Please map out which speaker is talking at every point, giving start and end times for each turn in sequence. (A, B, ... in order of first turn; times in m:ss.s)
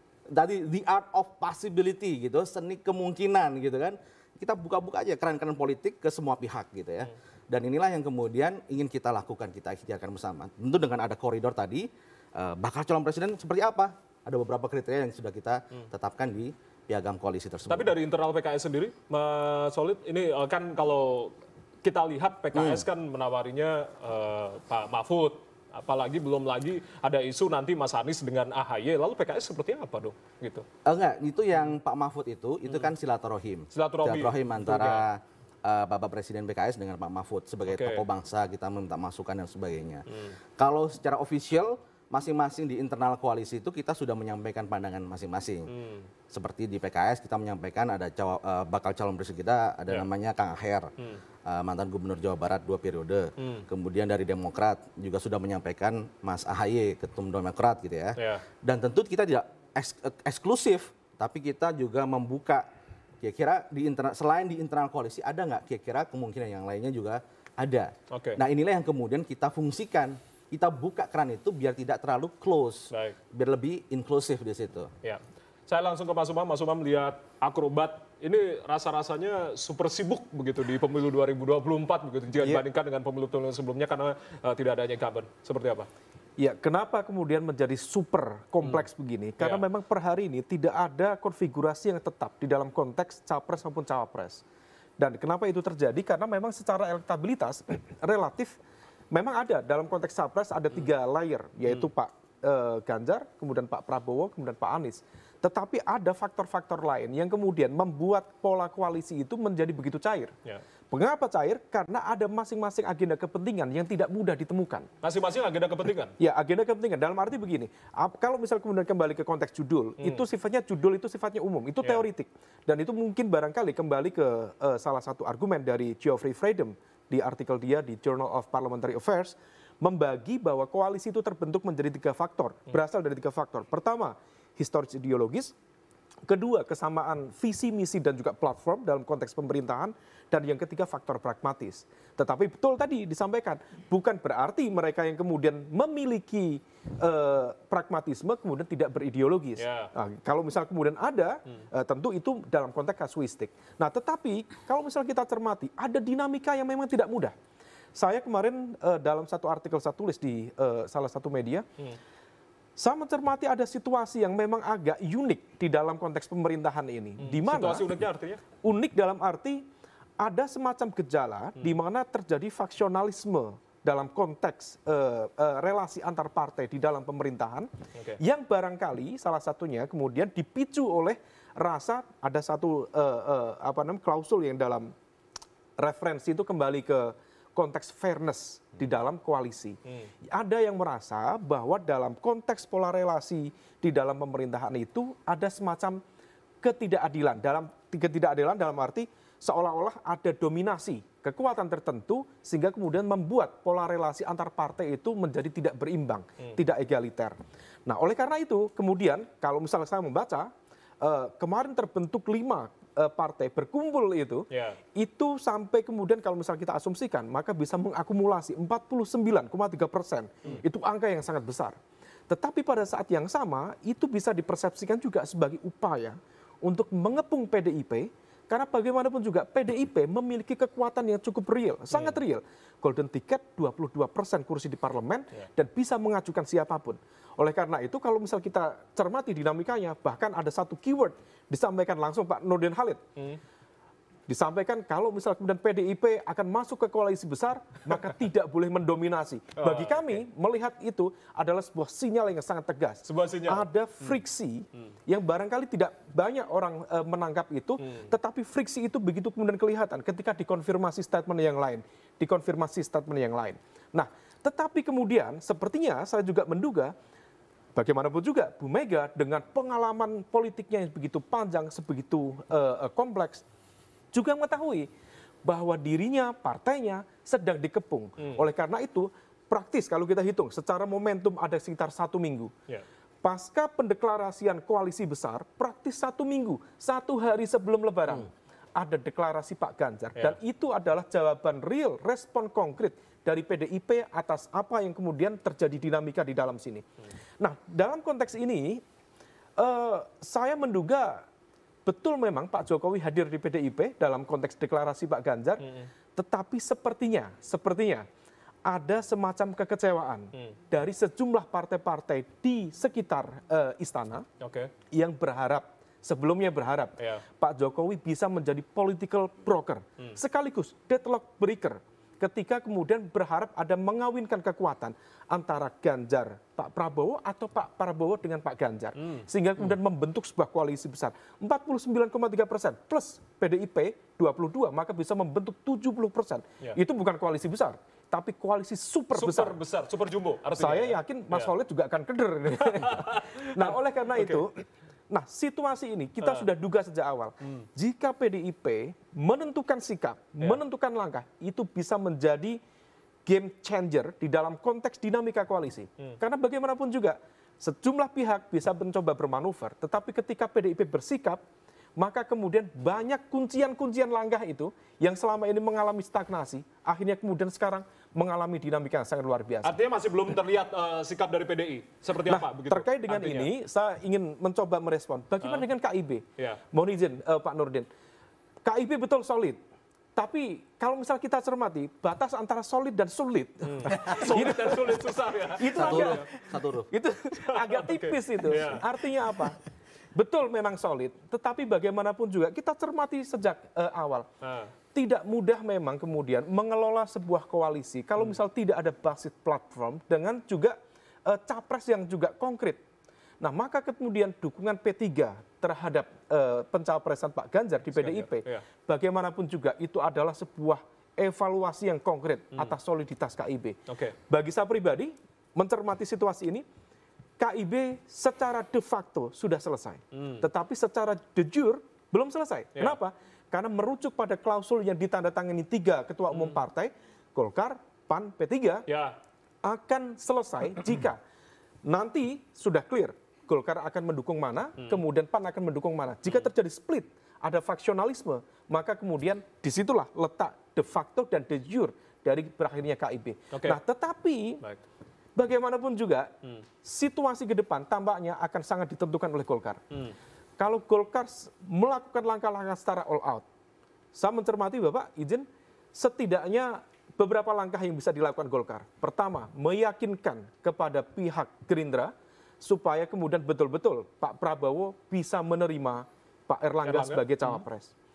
0:00.3-0:17.9 A
0:17.7-0:30.6 B
0:22.5-0:22.8 A
0:30.8-0:40.0 A
0:33.7-0:35.0 B
0:37.7-0:38.0 B
0:40.1-0:40.4 B
0:40.6-0:45.7 A
0:45.7-0:46.1 B
0:46.3-0:50.9 A
0:51.4-1:02.7 A
0:53.4-0:53.6 B
0:58.2-0:58.4 B
1:03.2-1:14.9 A
1:08.1-1:08.4 B
1:12.9-1:13.2 B
1:15.0-1:25.9 B
1:26.4-1:34.4 C
1:35.0-1:38.5 C
1:39.1-1:50.3 C
1:50.9-1:54.9 C
1:55.0-1:56.1 B
1:56.2-2:15.5 C
2:16.3-2:37.3 C
2:29.6-2:29.9 B
2:38.0-2:41.6 C
2:42.8-2:47.8 C
2:47.2-2:48.4 B
2:48.6-2:49.6 C
2:50.2-3:04.9 C
3:05.8-3:09.8 C
3:10.3-3:16.0 C
3:16.6-3:30.5 C
3:31.0-3:41.8 C
3:34.5-3:34.8 B
3:42.3-4:03.0 C
3:51.9-3:52.2 B
4:04.3-4:26.9 C
4:09.6-4:10.2 B
4:13.0-4:13.6 B
4:27.7-4:33.4 C
4:34.1-4:34.9 C
4:35.4-4:42.5 C
4:43.2-4:56.8 C
4:57.4-4:58.8 C
4:59.6-5:01.2 C
5:01.8-5:05.6 C
5:05.6-5:05.9 B
5:06.2-5:08.0 C
5:08.7-5:14.2 C
5:14.4-5:14.7 B
5:14.9-5:39.6 C
5:29.0-5:29.7 B
5:39.1-5:41.5 B
5:40.6-5:52.6 C
5:42.6-5:44.4 B
5:46.2-5:46.5 B
5:53.2-6:01.4 C
6:02.0-6:09.8 C
6:09.6-6:13.5 B
6:12.3-6:17.9 C
6:18.6-6:19.6 C
6:20.2-6:26.3 C
6:23.7-6:26.3 B
6:25.8-6:26.9 A
6:26.9-6:29.6 C
6:27.6-6:28.8 B
6:30.1-6:34.3 C
6:34.4-6:34.7 B
6:34.9-6:42.8 C
6:43.4-6:53.8 C
6:47.9-6:48.6 B
6:53.9-6:54.1 B
6:54.3-6:56.6 C
6:57.4-7:08.8 C
7:00.1-7:00.4 B
7:06.3-7:06.6 B
7:08.9-7:09.1 B
7:09.6-7:11.2 C
7:11.9-7:24.6 C
7:23.5-7:23.8 B
7:25.4-7:26.3 C
7:26.8-7:29.8 C
7:30.6-7:33.4 C
7:34.1-7:47.9 C
7:46.8-7:47.6 B